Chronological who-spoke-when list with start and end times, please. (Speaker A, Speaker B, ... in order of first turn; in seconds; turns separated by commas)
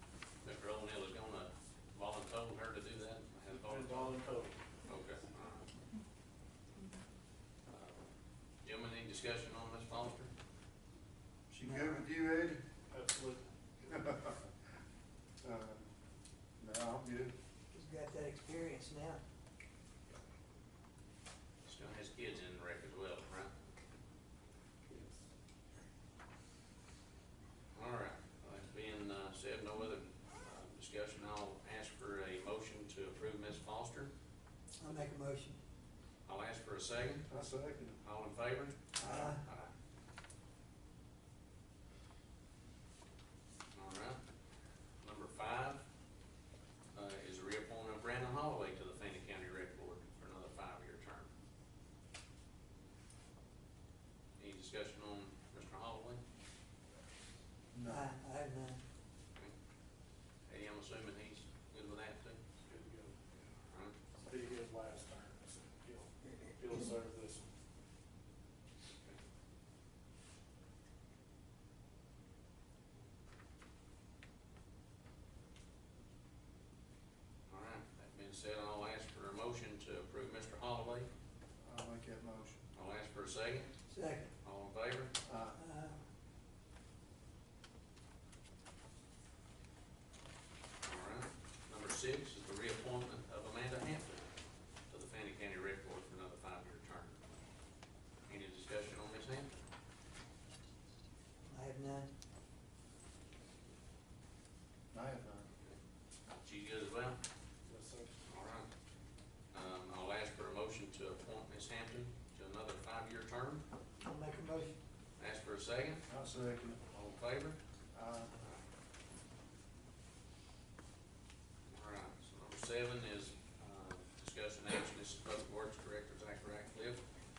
Speaker A: 0.4-4.2, Speaker B: 3.6-4.6, Speaker A: 4.9-5.7, Speaker A: 7.7-8.0, Speaker A: 8.6-10.3, Speaker C: 11.5-12.6, Speaker D: 11.6-12.0, Speaker B: 12.9-13.5, Speaker C: 13.9-14.4, Speaker C: 15.4-15.9, Speaker C: 16.6-17.3, Speaker D: 17.7-19.2, Speaker A: 21.6-23.5, Speaker B: 24.9-25.1, Speaker A: 27.7-34.1, Speaker D: 34.8-35.6, Speaker A: 36.2-37.3, Speaker C: 37.3-38.0, Speaker A: 38.0-39.7, Speaker D: 39.0-39.4, Speaker C: 39.0-39.3, Speaker A: 43.7-44.2, Speaker A: 45.0-45.8, Speaker A: 47.0-51.3, Speaker A: 54.4-56.2, Speaker C: 57.7-58.1, Speaker D: 57.8-58.8, Speaker A: 60.5-62.4, Speaker B: 62.6-63.2, Speaker A: 63.7-64.0, Speaker B: 64.2-67.5, Speaker A: 77.5-81.1, Speaker C: 81.6-82.6, Speaker A: 82.7-83.7, Speaker D: 83.9-84.3, Speaker A: 84.4-85.1, Speaker C: 85.2-85.6, Speaker D: 85.5-86.0, Speaker A: 90.8-94.3, Speaker A: 94.9-97.2, Speaker A: 98.3-99.5, Speaker D: 101.5-102.1, Speaker C: 104.9-105.5, Speaker A: 106.4-107.2, Speaker B: 107.7-108.1, Speaker A: 108.2-108.7, Speaker A: 109.5-113.6, Speaker D: 114.0-114.8, Speaker A: 115.2-116.0, Speaker C: 116.1-116.8, Speaker A: 116.9-117.6, Speaker C: 117.9-118.3, Speaker A: 121.7-127.0